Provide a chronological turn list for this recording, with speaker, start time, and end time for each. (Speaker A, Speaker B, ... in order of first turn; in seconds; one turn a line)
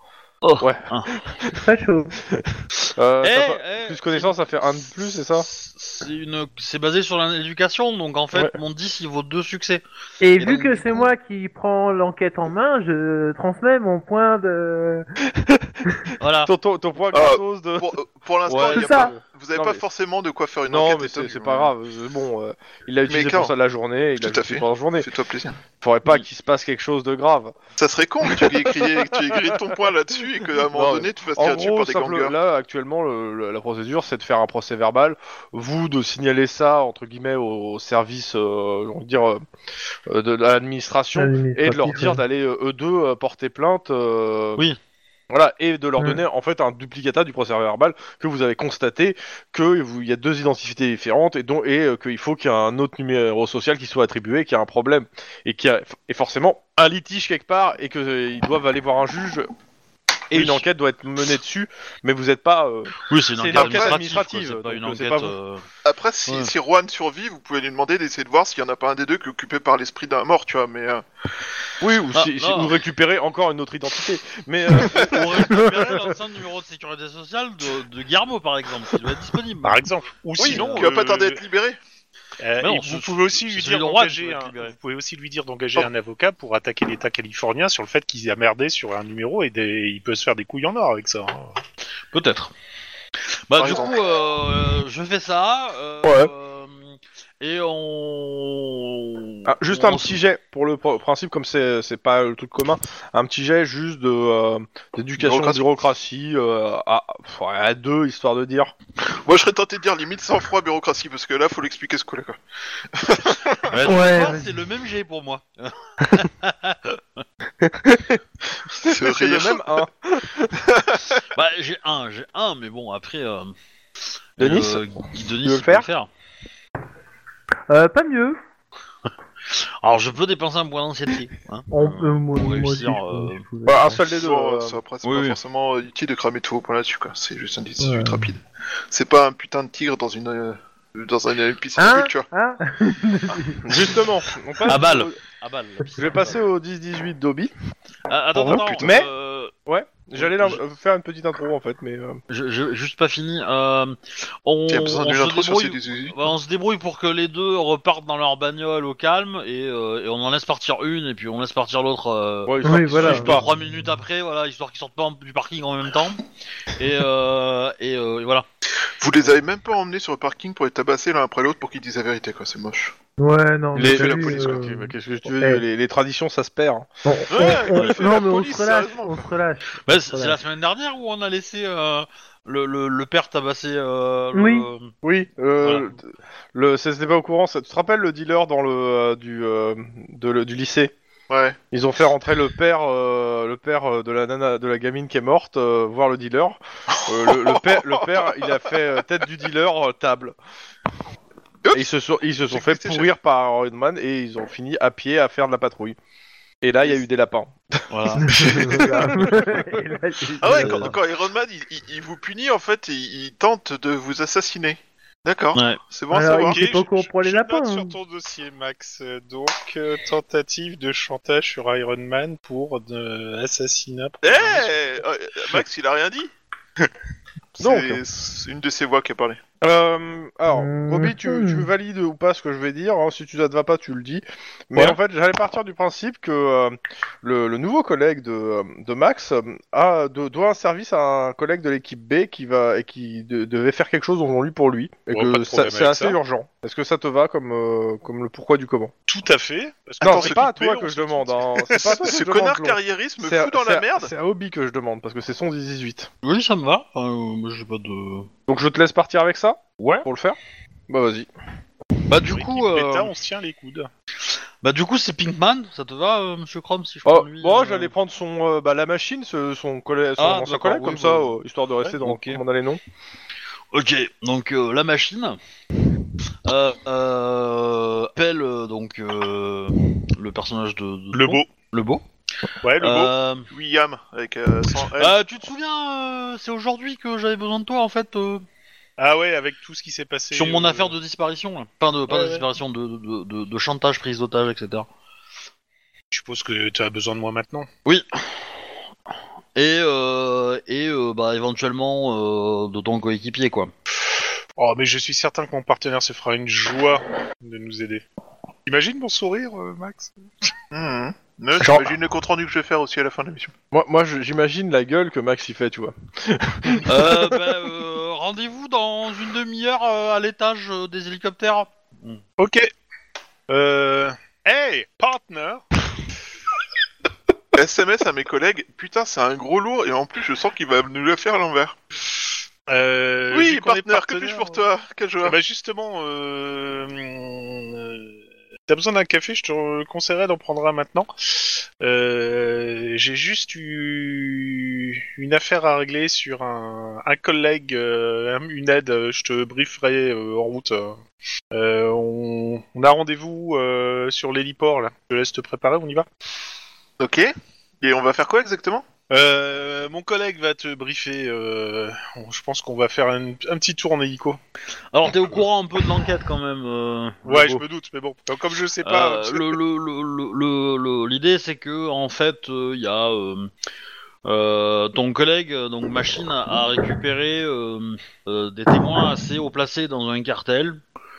Speaker A: 0.4-1.2
Speaker B: 0.6-1.6
Speaker C: 1.6-2.2
Speaker B: 2.3-5.5
Speaker A: 3.2-9.8
Speaker C: 10.2-15.1
Speaker A: 10.4-11.1
Speaker B: 15.3-15.8
Speaker A: 16.2-16.5
Speaker B: 16.4-17.9
Speaker D: 17.1-21.7
Speaker B: 18.4-19.8
Speaker C: 18.7-19.1
Speaker B: 20.7-25.1
Speaker D: 23.1-23.5
Speaker D: 24.2-25.6
Speaker B: 25.8-27.5
Speaker D: 27.8-32.3
Speaker B: 28.4-28.7
Speaker B: 30.7-39.4
Speaker B: 40.1-44.6
Speaker C: 41.2-42.2
Speaker B: 45.3-59.5
Speaker B: 60.3-65.3
Speaker A: 60.3-60.6
Speaker A: 63.1-65.6
Speaker D: 63.5-64.0
Speaker D: 65.8-71.0
Speaker A: 66.3-66.5
Speaker B: 71.8-75.8
Speaker A: 72.1-72.8
Speaker A: 74.8-79.8
Speaker E: 79.6-81.4
Speaker A: 80.4-80.9
Speaker D: 80.4-81.8
Speaker E: 82.4-91.6
Speaker A: 82.6-84.8
Speaker A: 92.1-92.5
Speaker A: 93.5-100.2
Speaker D: 93.5-94.0
Speaker B: 96.0-96.3
Speaker B: 99.5-108.7
Speaker D: 105.2-105.7
Speaker D: 109.1-112.4
Speaker D: 112.9-113.8
Speaker A: 113.7-117.2
Speaker C: 113.8-114.5
Speaker B: 117.6-118.2
Speaker B: 118.8-120.6
Speaker D: 118.8-119.7
Speaker D: 120.7-121.1
Speaker A: 121.3-123.5
Speaker A: 124.4-126.1
Speaker B: 124.4-124.9
Speaker B: 125.4-125.9
Speaker C: 127.7-128.4
Speaker A: 129.5-133.4
Speaker C: 131.7-134.0
Speaker B: 133.7-134.8
Speaker D: 134.1-142.3
Speaker A: 135.0-135.4
Speaker C: 137.8-138.3
Speaker C: 141.8-143.8
Speaker B: 143.6-145.2
Speaker A: 144.7-146.4
Speaker B: 146.0-147.5
Speaker A: 148.1-149.5
Speaker B: 148.3-149.1
Speaker D: 148.5-148.9
Speaker B: 149.7-152.2
Speaker A: 150.2-150.6
Speaker A: 152.3-166.2
Speaker D: 154.7-156.3
Speaker B: 162.5-163.5
Speaker C: 162.6-163.4
Speaker A: 166.8-168.4
Speaker D: 169.0-172.9
Speaker C: 173.2-175.6
Speaker B: 173.8-176.9
Speaker D: 173.9-174.6
Speaker C: 177.1-180.4
Speaker D: 177.3-179.2
Speaker A: 179.9-184.9
Speaker C: 184.3-184.7
Speaker B: 185.0-186.0
Speaker A: 185.6-185.9
Speaker B: 186.5-190.9
Speaker D: 191.3-191.6
Speaker B: 191.7-200.4
Speaker D: 196.9-198.5
Speaker B: 201.7-206.0
Speaker D: 202.5-203.1
Speaker B: 206.6-209.8
Speaker A: 207.9-208.8
Speaker C: 208.3-210.9
Speaker D: 210.4-216.6
Speaker A: 210.6-210.9
Speaker A: 215.5-215.8
Speaker C: 216.1-218.0
Speaker E: 216.3-224.8
Speaker D: 224.2-226.3
Speaker D: 227.6-229.4
Speaker B: 227.6-228.0
Speaker B: 229.6-248.9
Speaker C: 230.5-231.7
Speaker E: 245.1-246.2
Speaker E: 249.1-252.0
Speaker D: 250.0-250.4
Speaker B: 250.0-256.1
Speaker D: 251.9-254.1
Speaker A: 256.2-258.3
Speaker B: 258.5-260.4
Speaker A: 259.8-260.1
Speaker B: 260.9-261.3
Speaker A: 262.1-263.1
Speaker E: 262.2-263.9
Speaker A: 264.6-267.9
Speaker B: 267.1-272.8
Speaker A: 270.2-271.4
Speaker A: 272.0-272.4
Speaker A: 273.7-275.4
Speaker A: 276.4-282.1
Speaker E: 281.1-281.5
Speaker E: 282.6-283.1
Speaker A: 282.8-283.5
Speaker D: 283.5-285.2
Speaker A: 284.8-288.4
Speaker E: 289.0-290.9
Speaker A: 290.3-294.9
Speaker E: 292.1-292.5
Speaker E: 296.1-297.7
Speaker A: 299.6-303.7
Speaker E: 304.6-308.1
Speaker E: 308.7-310.1
Speaker D: 310.7-313.5
Speaker B: 311.6-311.9
Speaker B: 313.7-317.4
Speaker A: 316.9-322.2
Speaker E: 322.4-322.7
Speaker E: 323.5-325.6
Speaker D: 327.5-331.8
Speaker E: 332.7-334.6
Speaker D: 333.3-335.4
Speaker E: 335.2-351.0
Speaker E: 351.5-356.1
Speaker D: 357.0-358.9
Speaker E: 359.1-364.4
Speaker A: 364.9-367.6
Speaker E: 367.2-369.6
Speaker A: 368.8-373.5
Speaker A: 374.2-380.8